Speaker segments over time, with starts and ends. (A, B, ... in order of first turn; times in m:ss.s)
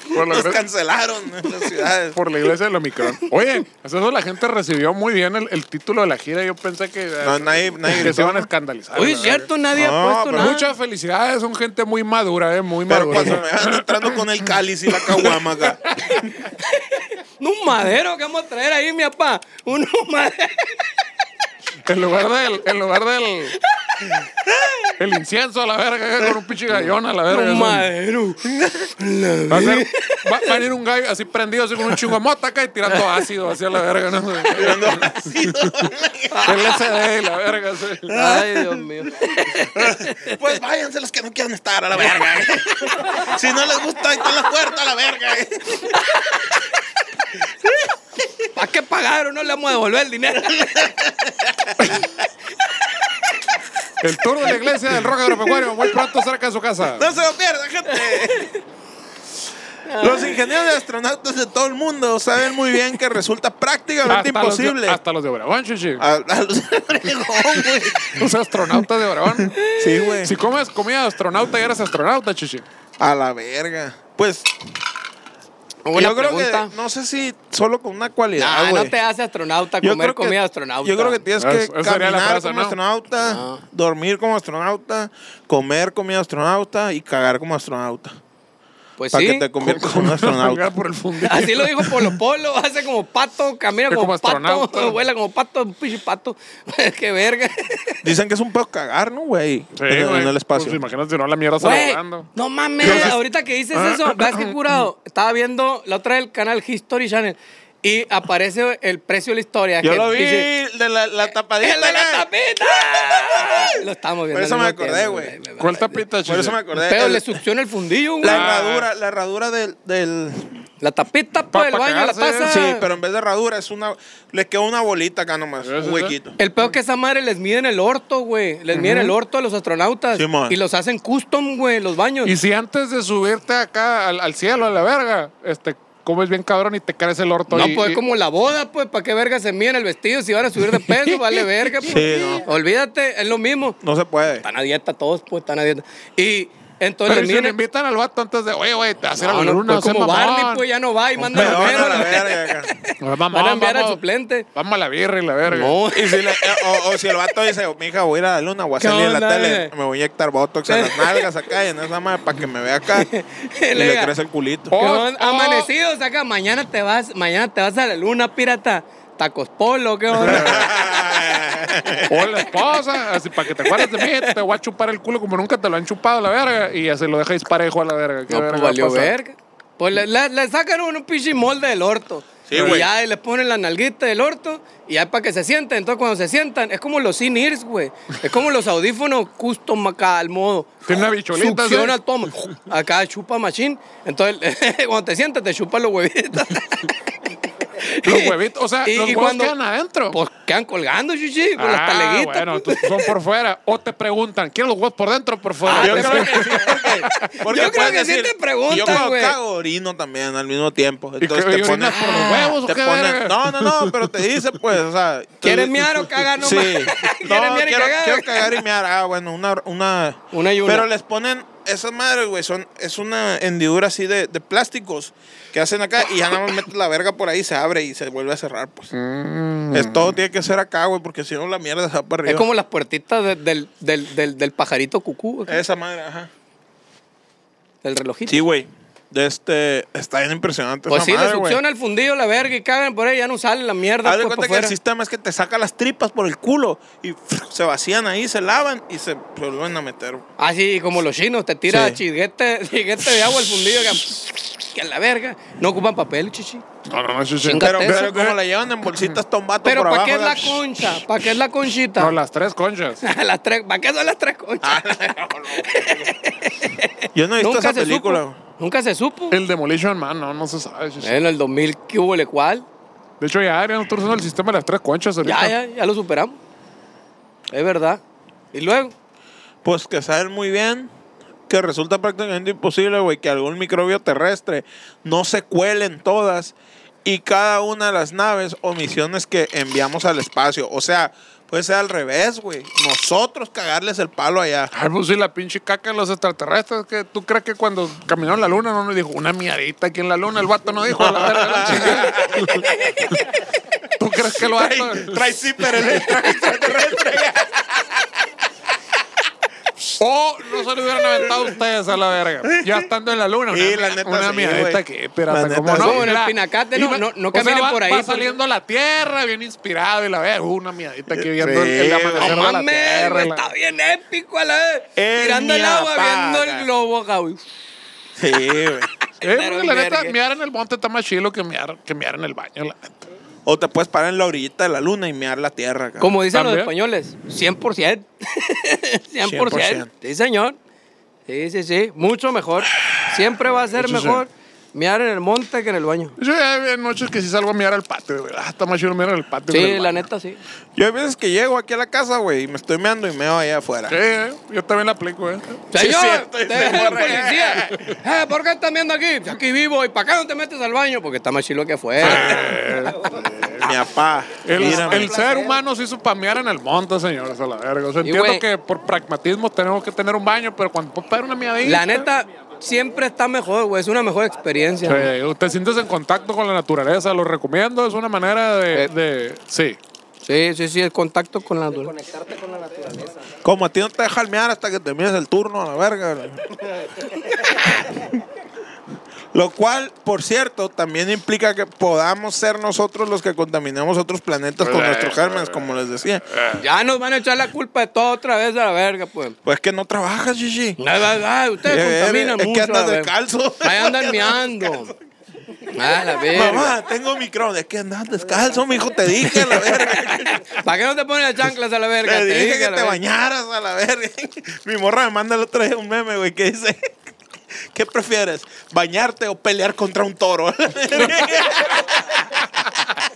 0:00.1-0:00.6 A
0:00.1-0:02.2 B
0:02.1-0:09.5 A
0:07.2-0:08.5 B
0:09.0-0:10.7 C
0:09.7-0:10.5 B
0:10.4-0:14.2 A
0:12.9-0:16.3 B
0:15.0-0:16.2 A
0:16.5-0:20.9 C
0:21.8-0:23.6 A
0:23.8-0:24.1 C
0:24.5-0:24.9 B
0:25.0-0:27.8 A
0:27.3-0:28.4 C
0:28.4-0:29.0 B
0:29.0-0:30.6 C
0:29.5-0:35.7 A
0:32.9-0:33.2 C
0:34.5-0:36.6 B
0:36.3-0:36.8 C
0:36.4-0:38.2 A
0:38.1-0:38.9 B
0:38.1-0:40.4 C
0:39.7-0:46.0 B
0:42.8-0:43.3 C
0:45.9-0:46.4 C
0:48.5-0:51.0 C
0:50.5-0:52.0 B
0:54.0-0:57.0 A
0:56.9-0:58.5 B
0:57.9-0:58.6 C
0:59.8-1:00.6 C
1:00.0-1:05.0 B
1:04.1-1:06.0 A
1:06.0-1:08.3 B
1:08.0-1:09.5 A
1:09.4-1:10.3 B
1:09.5-1:10.2 C
1:10.2-1:12.6 A
1:13.0-1:14.5 B
1:15.8-1:16.7 C
1:15.9-1:18.9 B
1:18.4-1:21.2 C
1:19.8-1:28.1 B
1:21.4-1:22.8 A
1:23.2-1:23.6 C
1:29.0-1:29.5 C
1:29.1-1:30.7 B
1:29.6-1:32.1 A
1:31.2-1:38.0 C
1:33.9-1:35.0 A
1:38.0-1:40.8 B
1:39.8-1:42.3 A
1:41.6-1:50.5 C
1:42.8-1:43.1 B
1:42.8-1:43.2 A
1:43.7-1:44.6 A
1:49.8-1:52.3 B
1:51.6-1:56.0 C
1:53.4-1:53.7 B
1:54.3-1:55.4 B
1:55.6-1:56.6 A
1:56.2-1:57.4 B
1:56.8-1:58.4 C
1:58.2-2:00.6 B
1:58.2-1:58.9 A
2:00.8-2:02.8 C
2:01.5-2:02.6 A
2:02.5-2:06.3 B
2:05.6-2:06.2 A
2:06.4-2:12.3 C
2:08.7-2:09.1 A
2:10.1-2:10.6 B
2:12.2-2:18.0 A
2:17.5-2:23.8 C
2:20.9-2:22.3 A
2:21.8-2:22.4 B
2:23.8-2:24.4 B
2:24.4-2:27.6 C
2:27.1-2:30.6 A
2:29.2-2:34.4 C
2:31.2-2:32.7 B
2:31.3-2:32.1 A
2:33.0-2:34.0 A
2:34.5-2:35.8 A
2:35.5-2:36.8 C
2:35.9-2:43.1 B
2:38.8-2:39.7 C
2:40.7-2:41.3 C
2:42.9-2:44.1 C
2:43.7-2:44.7 B
2:44.7-2:45.7 A
2:44.8-2:50.9 C
2:50.2-2:50.7 A
2:50.2-2:52.2 B
2:52.1-2:59.1 A
2:53.5-2:54.4 C
2:58.3-3:16.9 C
3:02.5-3:02.9 B
3:02.5-3:02.8 A
3:10.8-3:12.0 A
3:17.6-3:19.5 C
3:18.0-3:20.2 A
3:20.1-3:23.1 C
3:21.6-3:27.3 A
3:25.6-3:29.4 C
3:25.7-3:48.9 B
3:31.2-3:34.0 A
3:31.9-3:32.5 C
3:35.4-3:38.6 C
3:40.3-3:40.9 C
3:48.9-3:50.2 A
3:49.7-3:52.5 B
3:52.2-3:55.6 C
3:55.5-3:56.3 B
3:57.8-3:58.4 C
3:58.3-4:01.6 B
4:00.9-4:04.7 C
4:04.0-4:10.2 B
4:10.4-4:16.6 C
4:11.7-4:12.0 B
4:16.9-4:18.4 A
4:17.4-4:18.1 C
4:17.6-4:20.6 B
4:19.6-4:22.2 C
4:22.0-4:23.0 A
4:23.0-4:25.0 C
4:24.6-4:26.1 B
4:25.5-4:29.4 C
4:27.1-4:28.4 B
4:29.3-4:31.2 A
4:31.0-4:32.6 C
4:33.2-4:35.5 A
4:35.2-4:36.4 C
4:37.5-4:38.0 C
4:38.5-4:38.9 C
4:39.6-4:40.9 B
4:41.5-4:54.7 B
4:54.7-5:03.2 A
5:00.9-5:02.6 B
5:02.6-5:03.2 C
5:04.0-5:05.2 A
5:04.3-5:08.2 B
5:09.9-5:23.4 A
5:12.5-5:12.8 B
5:13.5-5:16.1 B
5:15.8-5:18.3 C
5:21.1-5:22.4 B
5:22.2-5:27.4 C
5:25.0-5:26.7 B
5:28.2-5:28.9 B
5:29.0-5:30.1 C
5:29.2-5:33.0 A
5:33.4-5:36.1 B
5:36.0-5:40.6 C
5:36.3-5:36.7 A
5:39.2-5:39.9 B
5:41.3-5:46.2 C
5:43.8-5:44.2 A
5:46.2-5:50.1 A
5:49.5-5:50.4 C
5:50.8-5:54.0 B
5:53.9-5:55.6 A
5:55.7-6:02.7 C
5:55.7-5:57.9 B
6:02.0-6:03.7 A
6:02.0-6:02.4 B
6:03.6-6:05.1 B
6:04.4-6:12.1 A
6:04.5-6:05.6 D
6:08.0-6:08.4 C
6:11.6-6:15.1 C
6:14.3-6:15.0 D
6:14.8-6:19.8 A
6:20.2-6:21.9 C
6:21.7-6:23.3 D
6:23.4-6:26.6 B
6:27.6-6:28.1 B
6:29.3-6:36.2 B
6:34.6-6:36.6 A
6:36.6-6:39.4 C
6:39.4-6:40.8 B
6:40.8-6:44.9 C
6:41.6-6:45.0 B
6:45.7-6:46.8 C
6:46.3-6:50.6 B
6:48.3-6:49.4 D
6:49.2-6:53.0 C
6:52.0-6:57.0 B
6:57.7-7:02.5 B